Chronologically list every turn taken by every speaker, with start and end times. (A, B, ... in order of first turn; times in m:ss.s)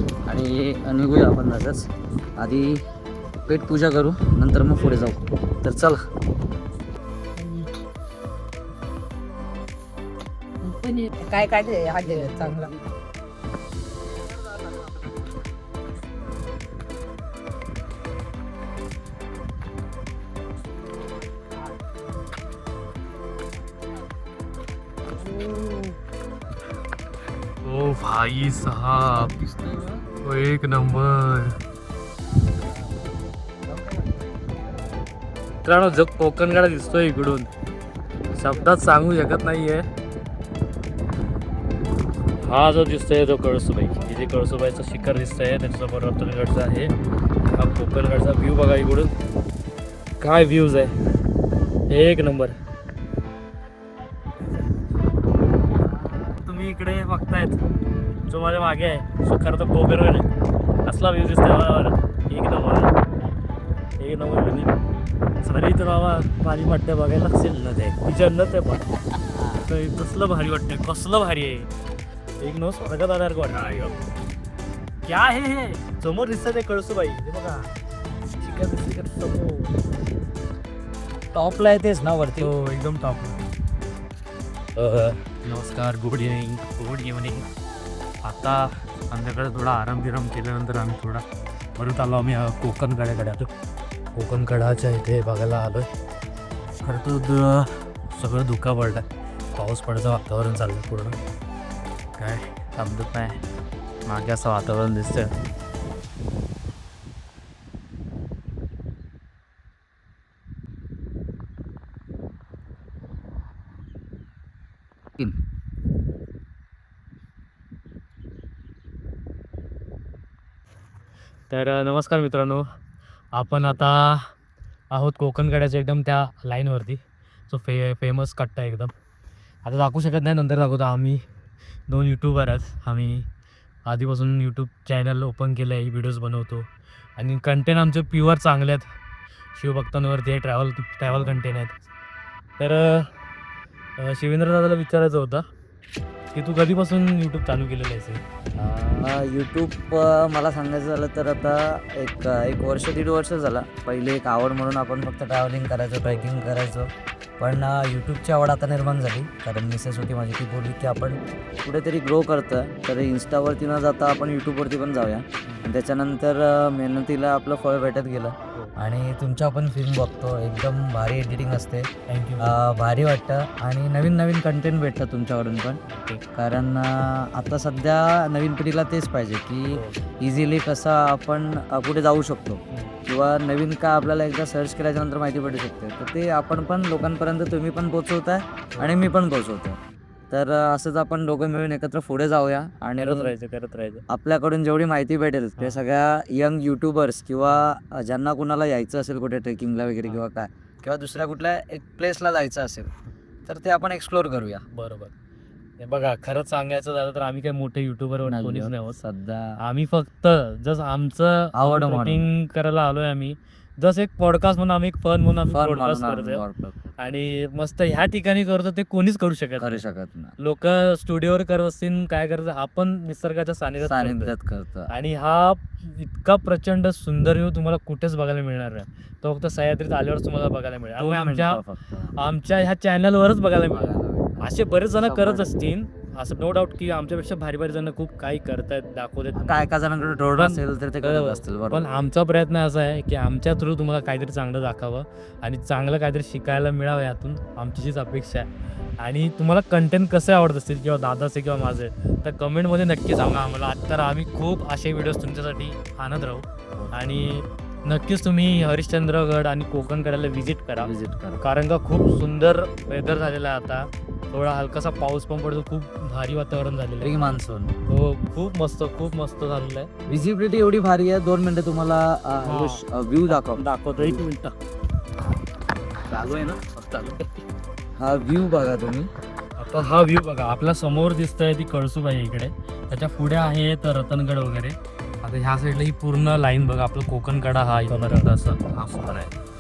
0:00.3-0:02.8 A
0:03.4-0:06.0 A
0:10.6-0:12.7 B
0:27.6-0:29.4 C
0:30.2-0:31.6 C
0:35.6-0:37.5 C
0:38.3-0:39.9 C
0:42.4-0:46.9 C
0:47.5-0:49.1 C
0:50.2-0:51.0 C
0:51.9-0:52.6 C
0:56.3-0:57.6 C
0:58.3-1:00.3 C
1:00.9-1:02.9 C
1:04.0-1:04.7 C
1:05.4-1:08.8 C
1:07.5-1:08.0 A
1:09.3-1:09.7 A
1:09.6-1:11.7 C
1:12.4-1:14.0 C
1:15.0-1:17.7 C
1:18.4-1:19.7 C
1:21.3-1:22.6 A
1:22.4-1:23.4 C
1:24.8-1:27.5 C
1:28.2-1:31.2 C
1:31.8-1:33.5 C
1:34.2-1:35.9 C
1:36.8-1:41.2 C
1:42.2-1:43.4 C
1:44.1-1:45.3 C
2:01.5-2:02.6 C
2:03.4-2:04.3 C
2:04.9-2:08.9 C
2:09.6-2:11.2 C
2:11.9-2:13.3 C
2:13.9-2:16.7 C
2:17.2-2:18.9 C
2:19.6-2:21.8 C
2:22.6-2:23.1 C
2:24.0-2:25.4 C
2:26.3-2:28.2 C
2:28.6-2:55.8 A
2:52.1-2:52.6 C
2:55.9-2:56.2 C
2:56.3-3:09.8 A
2:59.7-3:00.0 C
3:08.7-3:09.1 C
3:10.3-3:13.4 A
3:13.0-3:14.0 C
3:14.1-3:22.9 A
3:23.4-3:24.6 A
3:24.7-3:25.1 C
3:25.8-3:29.0 C
3:28.2-3:29.6 A
3:29.6-3:36.4 C
3:31.6-3:32.3 A
3:35.5-3:36.9 A
3:37.0-3:39.8 C
3:39.6-3:40.3 A
3:40.4-3:44.3 C
3:43.8-3:44.9 A
3:44.9-3:51.6 C
3:51.0-3:52.2 A
3:52.2-3:59.7 C
3:53.7-3:55.5 A
3:59.3-4:02.0 A
4:00.4-4:08.5 C
4:09.0-4:27.2 C
4:20.8-4:21.5 A
4:27.0-4:27.7 A
4:27.9-4:29.9 C
4:30.1-4:34.2 A
4:32.4-4:34.6 C
4:36.1-4:37.3 C
4:36.2-4:36.4 A
4:38.0-4:39.1 A
4:39.6-4:49.3 C